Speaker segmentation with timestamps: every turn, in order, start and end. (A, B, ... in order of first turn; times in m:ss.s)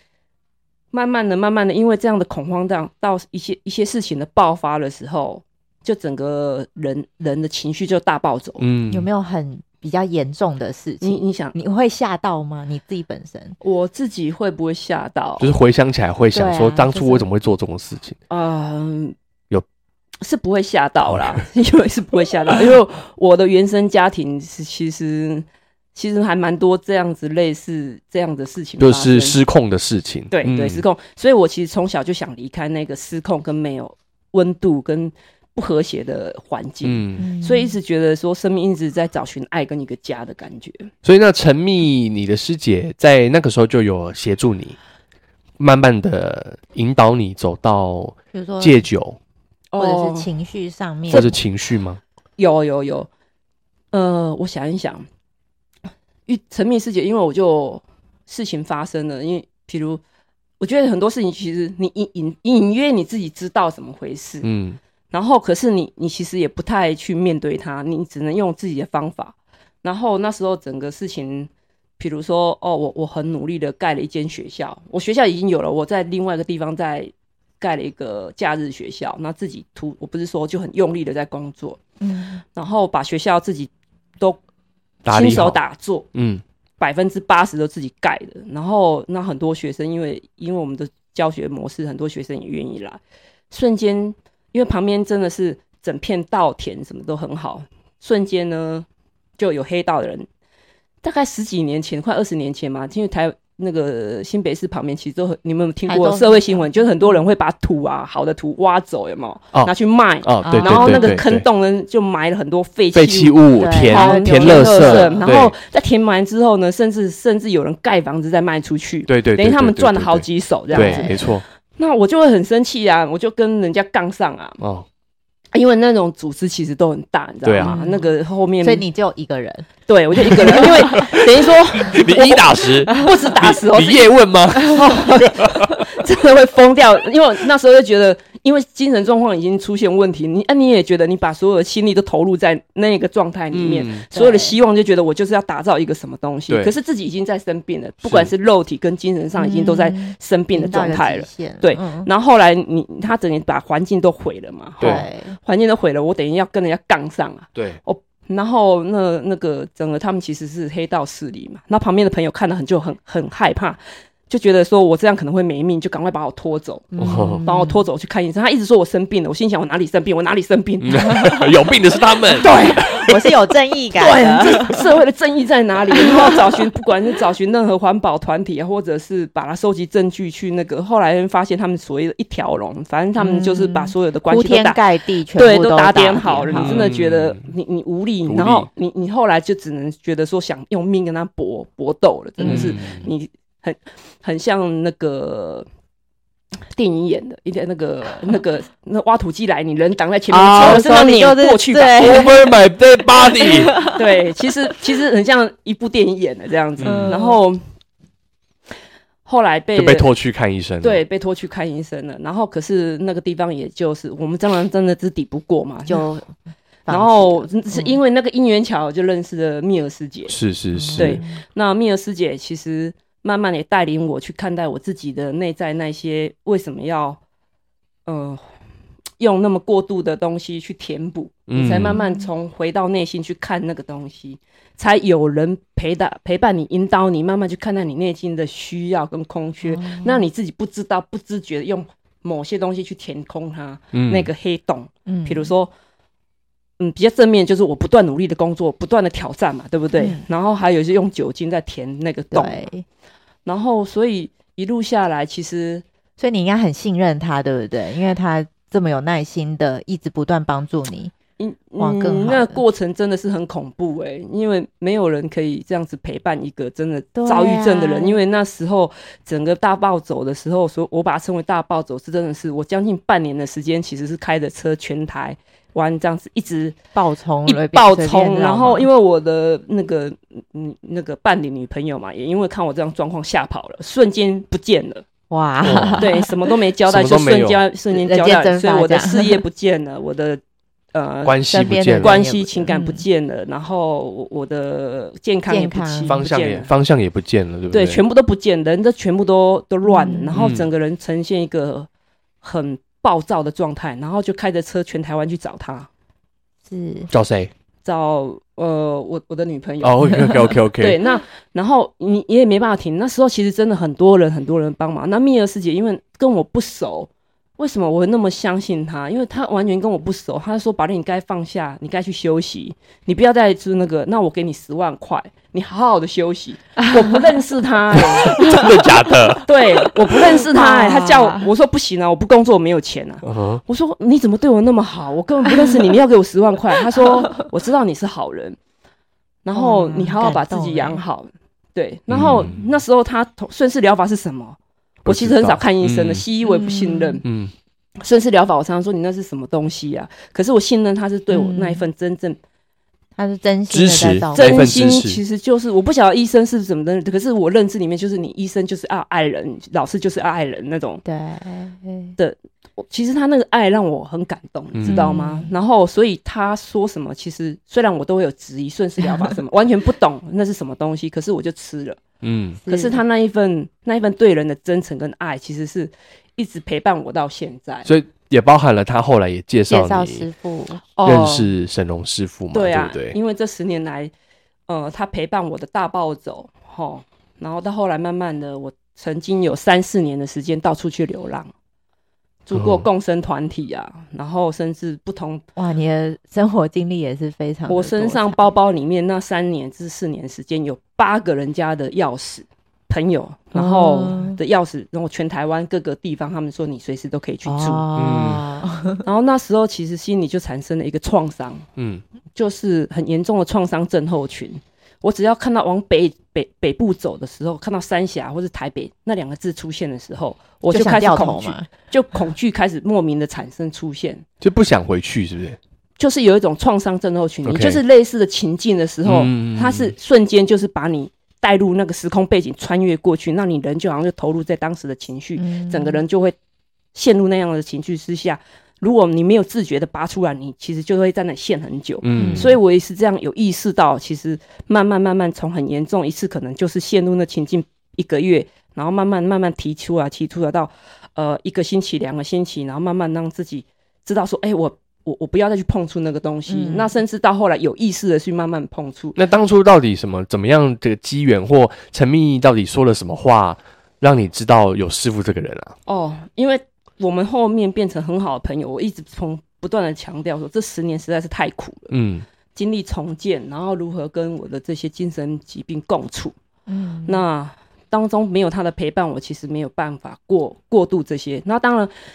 0:00.9-0:08.6 A
0:08.6-0:09.1 B
0:08.9-0:13.6 C
0:11.0-0:11.6 A
0:13.6-0:15.5 A
0:15.4-0:18.2 B
0:16.3-0:17.3 C
0:18.3-0:19.2 A
0:20.2-0:29.4 A
0:28.8-0:30.8 B
0:30.3-0:40.9 A
0:36.8-0:37.2 B
0:37.2-0:37.8 C
0:41.0-0:44.8 B
0:45.6-0:49.2 B
0:48.3-0:48.8 C
0:49.7-0:50.3 A
0:49.8-0:51.3 C
0:51.1-0:51.4 A
0:51.1-0:52.0 B
0:52.4-0:53.1 A
0:53.9-0:55.1 A
0:56.3-1:00.0 A
1:00.6-1:04.5 A
1:04.4-1:04.8 B
1:05.1-1:21.8 A
1:22.0-1:22.4 C
1:22.5-1:24.4 A
1:25.0-1:25.6 B
1:25.1-1:26.1 A
1:26.1-1:26.4 B
1:26.8-1:33.0 A
1:33.5-1:38.9 A
1:39.4-1:40.3 A
1:41.0-2:01.2 A
1:45.9-1:47.2 C
1:50.2-1:51.4 B
1:50.4-1:51.2 C
1:52.9-1:55.6 B
1:53.6-1:55.3 C
1:59.1-2:01.4 B
2:00.7-2:01.3 C
2:01.8-2:04.6 A
2:04.6-2:04.9 B
2:05.5-2:08.8 A
2:07.4-2:07.8 B
2:07.6-2:08.1 C
2:08.6-2:09.7 C
2:09.9-2:51.5 A
2:10.3-2:10.7 C
2:11.8-2:15.8 B
2:23.5-2:24.0 B
2:24.1-2:24.6 C
2:28.0-2:28.3 B
2:29.4-2:32.1 C
2:34.8-2:35.4 C
2:46.9-2:47.8 C
2:47.0-2:47.4 B
2:50.8-2:53.0 B
2:52.4-2:53.0 A
2:52.4-2:54.8 C
2:54.0-3:04.8 A
3:03.2-3:06.9 C
3:05.3-3:15.7 A
3:06.5-3:07.5 B
3:08.3-3:08.7 B
3:12.4-3:12.7 C
3:12.4-3:13.1 B
3:16.7-3:22.3 A
3:20.3-3:20.8 B
3:20.5-3:22.4 C
3:22.0-3:23.7 B
3:23.4-3:24.0 C
3:23.9-3:27.6 A
3:26.8-3:27.1 B
3:26.8-3:27.4 C
3:29.3-3:30.1 A
3:29.8-3:31.0 B
3:30.8-3:36.1 A
3:35.9-3:36.3 C
3:36.9-3:38.0 C
3:36.9-3:40.4 A
3:40.3-3:41.2 B
3:40.7-3:41.4 C
3:41.0-3:47.2 A
3:48.1-3:48.4 A
3:49.2-4:05.7 A
3:51.5-3:52.0 B
3:51.8-3:52.3 C
3:59.7-4:00.2 C
4:03.9-4:04.3 B
4:05.1-4:05.5 C
4:06.8-4:12.6 A
4:10.0-4:10.2 C
4:12.3-4:12.8 C
4:13.4-4:15.8 A
4:16.2-4:21.2 C
4:21.4-4:36.8 A
4:21.8-4:22.6 C
4:27.2-4:28.2 C
4:37.0-4:38.9 C
4:37.5-4:45.1 A
4:45.3-4:46.3 C
4:45.6-4:46.1 B
4:46.0-4:50.4 A
4:46.8-4:47.6 B
4:47.9-4:49.4 C
4:50.9-4:51.5 A
4:51.2-4:52.2 B
4:51.5-4:53.0 C
4:52.0-4:56.7 A
4:55.5-4:56.2 C
4:56.1-4:58.0 B
4:57.7-5:01.9 A
4:59.8-5:00.4 C
5:00.4-5:00.7 B
5:02.4-5:05.9 A
5:06.7-5:07.1 C
5:07.1-5:07.5 B
5:07.8-5:28.4 A
5:09.8-5:11.0 B
5:28.2-5:29.9 B
5:28.4-5:28.7 C
5:29.4-5:38.6 A
5:30.4-5:31.5 C
5:33.2-5:33.6 B
5:39.4-5:47.2 A
5:39.5-5:41.0 C
5:42.1-5:42.7 B
5:45.0-5:46.2 B
5:46.4-5:47.2 C
5:47.2-5:47.5 B
5:48.0-5:52.4 A
5:51.3-5:51.8 C
5:53.2-5:55.0 C
5:53.7-5:55.2 B
5:54.3-6:01.0 A
6:01.0-6:02.1 C
6:02.2-6:12.0 A
6:04.8-6:05.0 B
6:04.9-6:05.5 C
6:09.0-6:09.3 C
6:12.2-6:12.6 B
6:12.6-6:13.0 C
6:12.7-6:17.9 A
6:17.8-6:20.2 B
6:19.7-6:20.8 C
6:21.0-6:21.5 A
6:21.0-6:23.2 B
6:22.5-6:24.1 A
6:24.7-6:31.5 A
6:32.5-6:35.4 A
6:32.5-6:32.8 B
6:35.6-6:38.4 C
6:37.7-6:47.9 A
6:43.5-6:44.4 C
6:47.4-6:49.0 C
6:48.0-6:48.4 B
6:49.0-6:51.7 A
6:51.8-6:52.0 B
6:52.4-7:04.2 A
7:00.7-7:01.7 C
7:04.4-7:05.6 B
7:06.0-7:16.4 A
7:07.4-7:07.8 B
7:09.0-7:09.9 B
7:15.4-7:16.0 C
7:16.9-7:39.2 A
7:22.0-7:22.5 B
7:22.1-7:22.6 C
7:36.5-7:36.9 C
7:39.2-7:45.8 B
7:45.9-7:51.9 A
7:51.9-7:52.2 B
7:52.6-7:56.4 A
7:56.7-7:57.2 C
7:57.1-8:01.9 A